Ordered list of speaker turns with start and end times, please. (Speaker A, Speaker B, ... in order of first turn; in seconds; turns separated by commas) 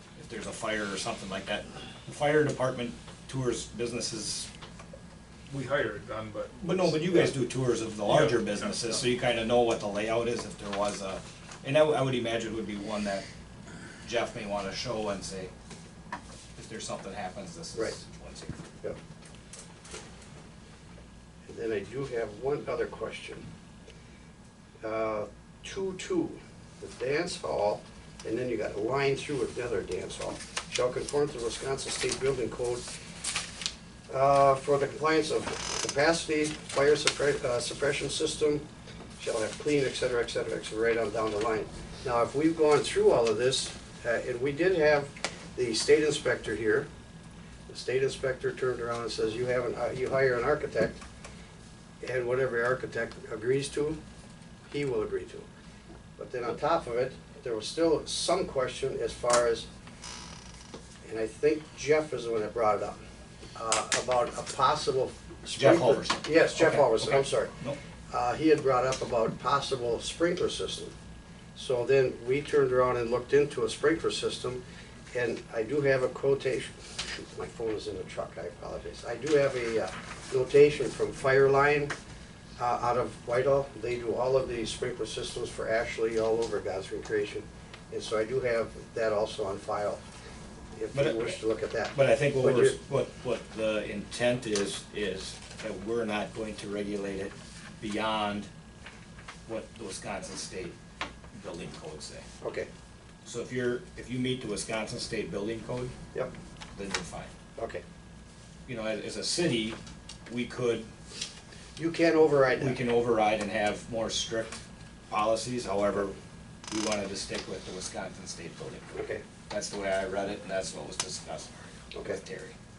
Speaker A: 0.2-4.5, Speaker B: 5.5-7.0, Speaker A: 6.6-13.2, Speaker B: 8.1-8.6, Speaker A: 14.0-15.5, Speaker A: 16.6-18.6, Speaker C: 21.5-23.5, Speaker C: 24.8-32.8, Speaker C: 34.1-38.6, Speaker C: 39.2-46.9, Speaker C: 47.7-51.0, Speaker C: 52.0-54.0, Speaker C: 54.7-55.5, Speaker C: 56.2-59.7, Speaker C: 61.0-63.0, Speaker C: 63.6-67.5, Speaker A: 65.5-67.8, Speaker C: 68.1-70.9, Speaker C: 71.6-74.6, Speaker C: 75.1-81.9, Speaker C: 82.6-90.0, Speaker C: 90.7-92.8, Speaker A: 90.9-91.4, Speaker A: 91.9-98.5, Speaker A: 99.5-100.8, Speaker A: 101.3-102.3, Speaker C: 102.4-102.7, Speaker A: 103.2-106.0, Speaker A: 106.8-107.3, Speaker C: 107.6-107.8, Speaker A: 108.7-110.9, Speaker C: 111.8-112.8, Speaker A: 112.6-116.2, Speaker A: 116.7-118.9, Speaker C: 118.9-119.2, Speaker A: 119.5-122.6, Speaker C: 121.9-122.2